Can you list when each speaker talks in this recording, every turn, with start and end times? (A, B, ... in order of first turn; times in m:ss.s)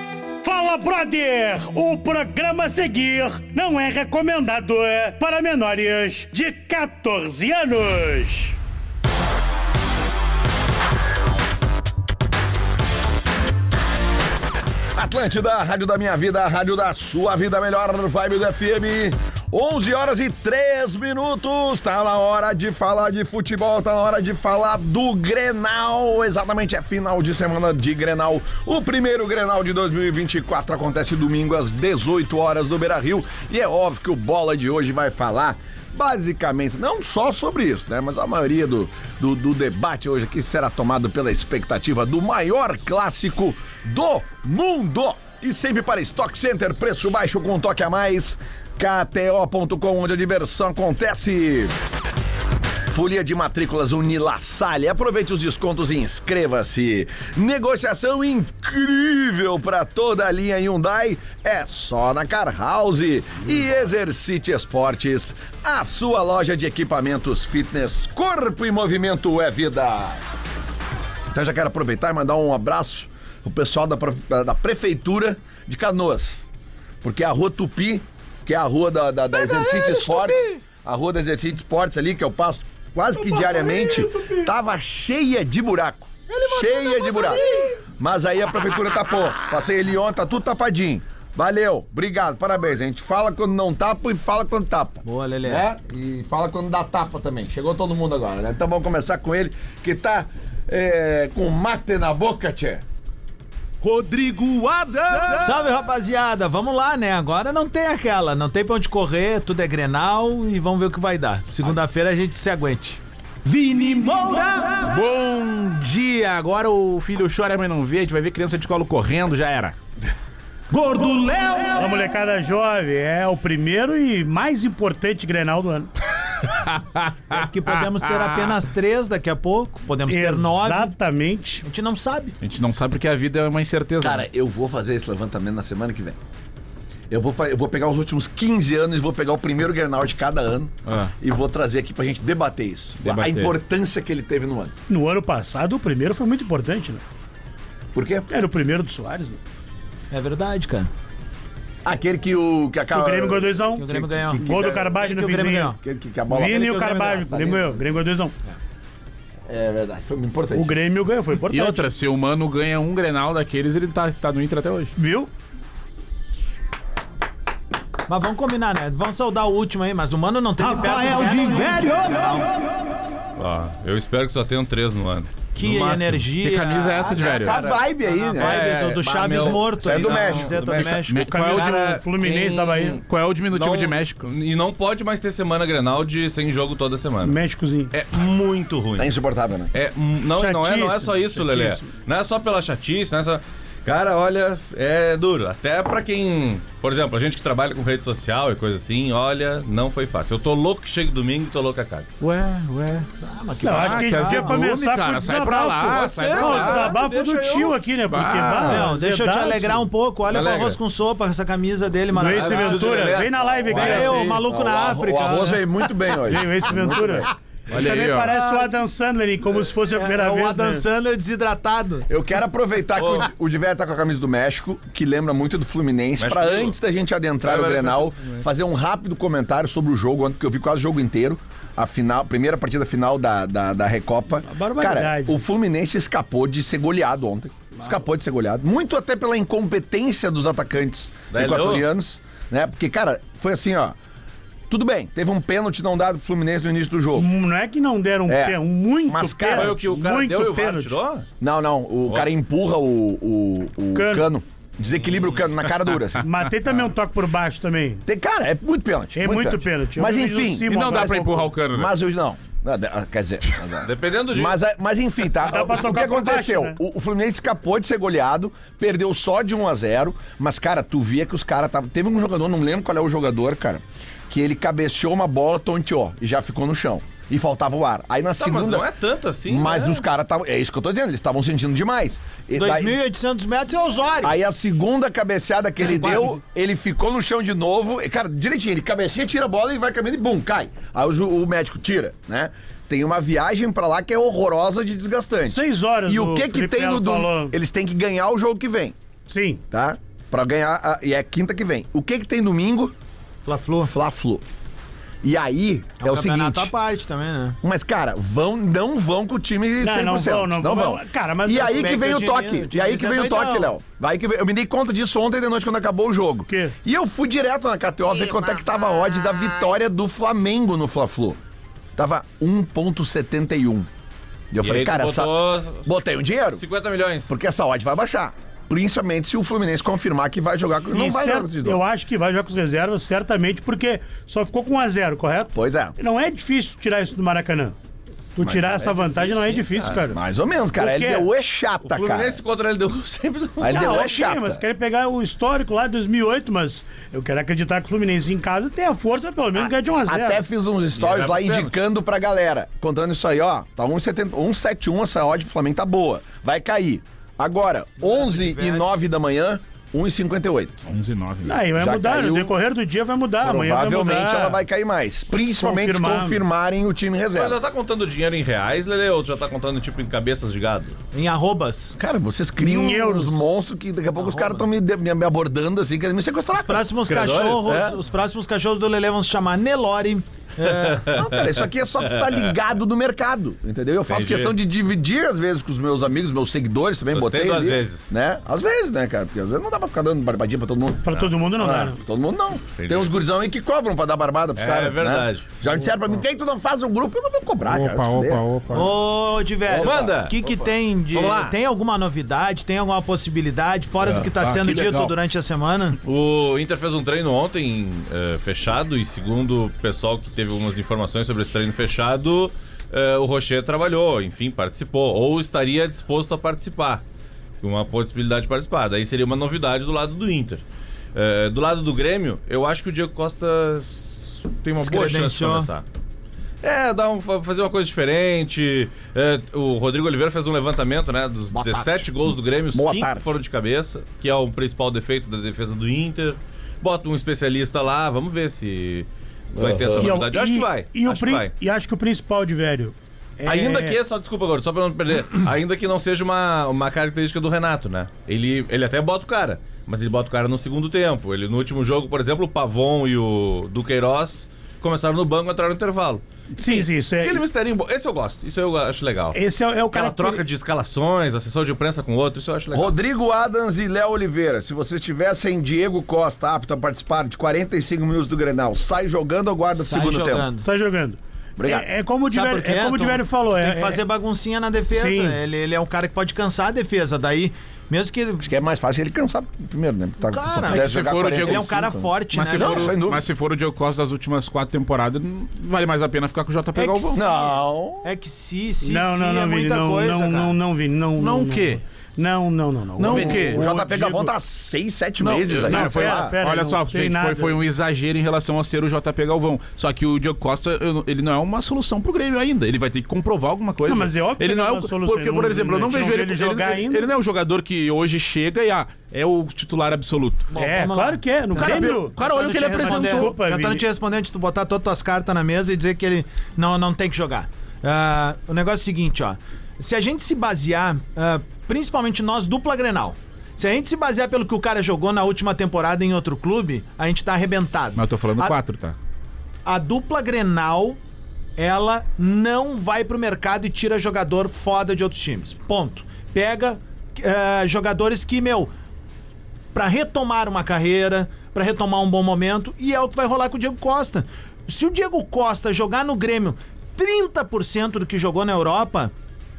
0:00.4-0:08.6 A
0:15.0-0:51.7 B
0:52.9-1:10.2 B
1:11.3-1:16.5 B
1:17.0-1:27.4 B
1:19.4-1:20.4 C
1:23.1-1:24.5 A
1:26.3-1:27.7 C
1:28.0-1:42.8 B
1:35.0-1:35.6 C
1:45.1-1:54.9 C
1:54.8-1:59.7 D
2:00.7-2:01.8 C
2:01.8-2:05.9 A
2:06.4-2:08.6 D
2:07.3-2:10.9 C
2:10.1-2:11.6 A
2:11.6-2:12.4 C
2:12.4-2:14.2 D
2:14.0-2:16.2 B
2:17.1-2:24.7 B
2:20.8-2:21.1 D
2:23.0-2:23.5 D
2:24.9-2:27.0 A
2:27.9-2:28.3 B
2:28.3-2:29.4 A
2:30.1-2:30.9 C
2:31.8-2:35.0 B
2:32.9-2:35.7 A
2:33.7-2:35.8 C
2:35.8-2:37.8 B
2:36.3-2:38.3 A
2:36.5-2:37.2 C
2:39.5-2:40.8 B
2:40.5-2:41.9 A
2:41.4-2:44.9 D
2:45.0-2:45.3 A
2:48.1-2:52.5 C
2:50.6-2:52.1 A
2:53.4-2:56.2 E
2:55.5-3:01.3 C
2:56.3-2:57.5 D
2:57.2-2:57.8 E
2:57.4-2:58.7 B
2:58.4-3:01.0 E
2:59.3-3:00.9 B
3:00.7-3:02.0 D
3:01.2-3:03.0 A
3:01.6-3:07.4 E
3:03.0-3:04.2 D
3:07.2-3:07.9 A
3:07.9-3:09.1 E
3:09.0-3:09.7 B
3:09.7-3:22.1 E
3:10.3-3:11.9 A
3:22.2-3:23.1 D
3:23.2-3:24.6 C
3:23.6-3:29.9 A
3:23.6-3:27.0 D
3:25.8-3:27.7 E
3:28.1-3:28.9 D
3:28.6-3:33.2 C
3:30.2-3:30.8 E
3:32.1-3:34.3 A
3:32.3-3:33.3 E
3:33.6-3:37.3 B
3:33.7-3:35.6 C
3:33.8-3:34.4 D
3:36.3-3:40.8 A
3:37.7-3:38.3 D
3:38.2-3:38.8 C
3:39.8-3:42.1 C
3:42.1-4:04.0 B
3:42.9-3:43.3 E
3:46.2-3:46.8 E
3:47.4-3:48.4 E
3:54.4-3:55.4 A
4:01.3-4:01.9 E
4:04.7-4:07.3 B
4:07.2-4:10.9 A
4:08.3-4:09.8 B
4:09.5-4:11.3 E
4:11.4-4:16.2 B
4:13.9-4:14.2 A
4:15.0-4:15.5 E
4:16.2-4:18.0 A
4:18.0-4:38.9 B
4:19.1-4:21.4 A
4:20.7-4:21.9 D
4:23.8-4:24.6 E
4:25.4-4:26.8 A
4:38.4-4:40.0 E
4:39.5-4:43.0 B
4:42.5-4:44.3 C
4:44.2-4:58.9 B
4:45.8-4:46.4 C
4:45.8-4:46.2 E
4:55.4-4:57.6 A
4:59.3-4:59.6 A
4:59.7-5:02.9 B
5:03.4-5:03.9 C
5:03.8-5:04.4 B
5:05.2-5:06.7 B
5:06.0-5:07.6 C
5:07.6-5:21.4 B
5:09.8-5:12.1 A
5:11.6-5:13.7 C
5:16.5-5:16.7 A
5:22.0-5:23.9 B
5:24.5-5:26.6 B
5:24.6-5:25.9 E
5:26.5-5:27.3 E
5:27.3-5:31.8 B
5:30.9-5:37.7 A
5:35.5-5:35.9 B
5:38.4-5:40.2 A
5:38.4-5:39.3 B
5:39.5-5:40.0 E
5:40.1-5:42.4 B
5:40.8-5:41.3 A
5:41.8-5:44.0 E
5:43.6-5:44.6 B
5:43.7-5:50.4 A
5:49.6-6:00.8 B
5:51.0-5:51.7 E
5:58.0-5:58.9 C
6:00.8-6:01.7 D
6:01.4-6:04.6 A
6:01.8-6:02.5 B
6:03.4-6:07.6 B
6:05.3-6:06.4 A
6:07.3-6:11.0 E
6:11.1-6:12.0 C
6:12.0-6:16.9 B
6:12.6-6:13.6 A
6:14.1-6:14.7 C
6:16.5-6:21.2 C
6:17.0-6:17.9 E
6:21.0-6:21.4 E
6:21.1-6:38.9 B
6:24.1-6:24.5 E
6:27.1-6:28.1 E
6:31.0-6:32.0 A
6:32.8-6:33.1 E
6:34.6-6:35.9 E
6:37.7-6:38.9 D
6:38.7-6:46.0 C
6:39.6-6:40.2 B
6:39.8-6:41.6 E
6:44.0-6:45.1 D
6:46.0-6:57.0 E
6:57.6-7:00.6 E
7:01.1-7:05.8 E
7:04.8-7:05.7 C
7:06.6-7:21.5 E
7:11.5-7:13.3 B
7:19.6-7:20.1 B
7:20.0-7:24.0 A
7:23.4-7:39.4 E
7:36.6-7:37.4 A
7:39.3-7:40.4 A
7:39.9-7:42.9 E
7:42.7-7:50.5 B
7:49.8-7:50.6 C
7:50.6-7:54.0 A
7:51.6-7:51.9 B
7:52.3-7:58.5 C
7:54.9-7:55.4 A
7:58.4-8:03.2 B
8:00.2-8:03.0 C
8:00.6-8:07.3 D
8:06.8-8:07.1 A
8:07.1-8:08.0 B
8:08.0-8:10.6 C
8:08.8-8:14.3 A
8:11.2-8:11.8 D
8:13.0-8:13.6 D
8:13.1-8:16.3 B
8:15.2-8:30.5 D
8:15.6-8:17.6 A
8:23.8-8:27.1 A
8:30.5-8:48.6 C
8:30.6-8:33.8 A
8:31.6-8:33.3 D
8:48.0-8:49.0 D
8:49.6-8:51.0 C
8:51.6-8:58.7 C
8:59.7-9:09.1 C